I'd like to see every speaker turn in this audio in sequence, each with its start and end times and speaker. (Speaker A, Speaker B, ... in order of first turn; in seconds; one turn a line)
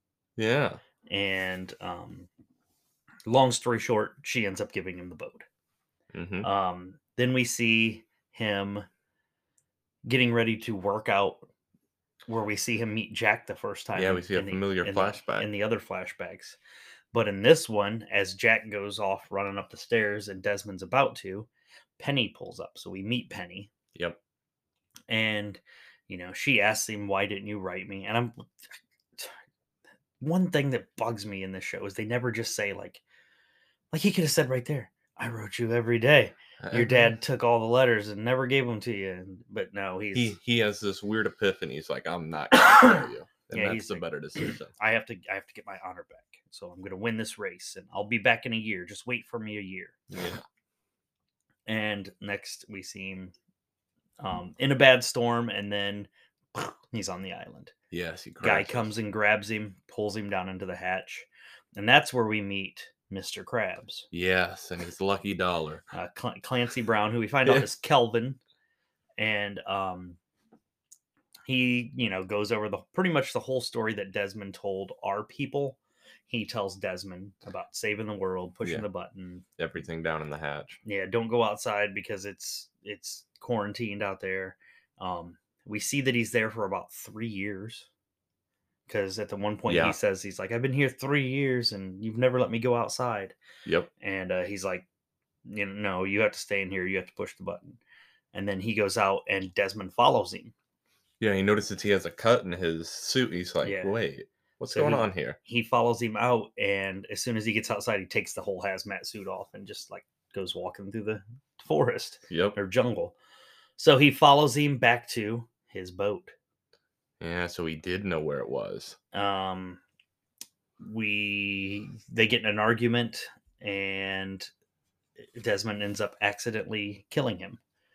Speaker A: 0.4-0.8
Speaker B: 1.1-2.3
Speaker B: 3.3-5.5
Speaker A: 6.1-6.5
Speaker B: 6.4-8.9
Speaker B: 10.1-11.5
Speaker B: 12.3-16.6
Speaker A: 13.9-15.5
Speaker B: 17.1-23.7
Speaker B: 25.1-28.5
Speaker B: 30.2-33.0
Speaker B: 33.9-40.4
Speaker A: 36.6-37.1
Speaker A: 40.1-44.7
Speaker B: 42.5-50.0
Speaker A: 50.1-50.4
Speaker B: 51.7-53.3
Speaker B: 54.2-57.7
Speaker A: 57.9-58.9
Speaker B: 58.4-64.1
Speaker A: 64.1-65.8
Speaker B: 65.9-68.4
Speaker B: 69.2-70.2
Speaker B: 71.5-79.5
Speaker A: 79.6-80.8
Speaker B: 80.8-87.9
Speaker B: 88.9-93.3
Speaker A: 89.7-90.0
Speaker A: 93.7-93.9
Speaker B: 94.0-94.9
Speaker B: 95.5-97.8
Speaker B: 98.3-100.5
Speaker A: 101.2-105.4
Speaker B: 103.6-104.0
Speaker B: 104.7-113.2
Speaker A: 112.3-112.6
Speaker B: 113.8-116.3
Speaker A: 117.2-119.0
Speaker B: 119.1-119.8
Speaker B: 120.8-124.5
Speaker B: 125.2-127.6